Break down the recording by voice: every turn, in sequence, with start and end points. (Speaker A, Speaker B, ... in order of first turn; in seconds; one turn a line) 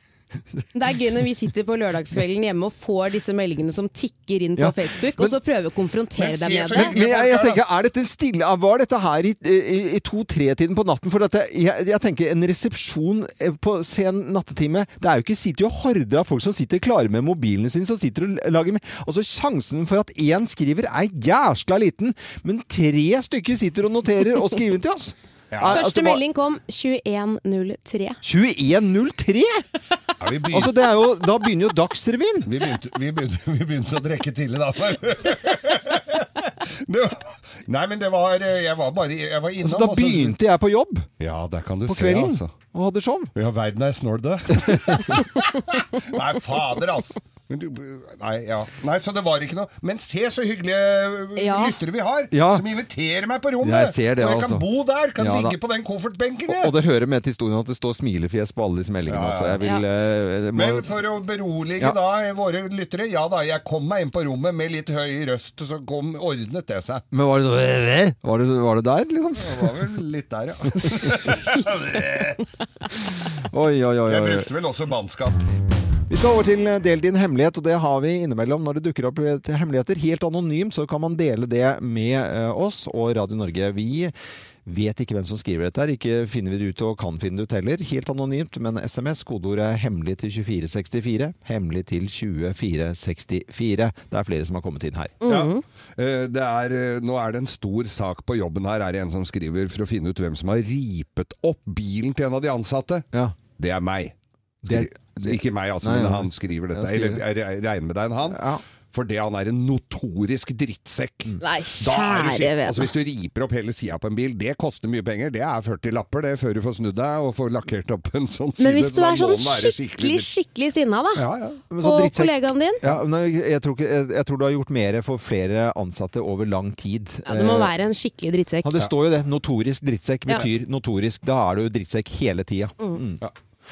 Speaker A: 0.8-6.9
Speaker B: 4.6-5.4
Speaker C: 6.2-7.6
Speaker B: 6.8-26.2
Speaker C: 25.5-25.8
Speaker A: 25.6-28.2
Speaker B: 28.2-29.6
Speaker C: 30.2-30.7
Speaker B: 30.5-32.5
Speaker C: 32.5-40.4
Speaker B: 39.6-41.1
Speaker C: 41.2-42.5
Speaker B: 41.9-43.3
Speaker C: 43.4-56.7
Speaker A: 51.4-51.8
Speaker B: 52.3-52.6
Speaker B: 53.6-54.6
Speaker B: 55.2-55.6
Speaker B: 56.5-60.9
Speaker C: 59.1-59.6
Speaker C: 60.5-67.0
Speaker B: 67.1-69.7
Speaker C: 69.4-72.4
Speaker B: 73.5-74.5
Speaker C: 74.1-75.4
Speaker B: 76.1-84.1
Speaker B: 84.7-95.2
Speaker A: 95.2-95.6
Speaker C: 95.3-103.1
Speaker C: 103.6-104.1
Speaker B: 104.7-107.2
Speaker C: 104.7-108.4
Speaker B: 108.3-108.6
Speaker C: 108.9-120.3
Speaker A: 111.4-112.9
Speaker A: 118.6-121.2
Speaker C: 121.2-121.6
Speaker B: 121.7-127.7
Speaker A: 121.8-122.8
Speaker A: 127.3-128.8
Speaker B: 128.6-133.2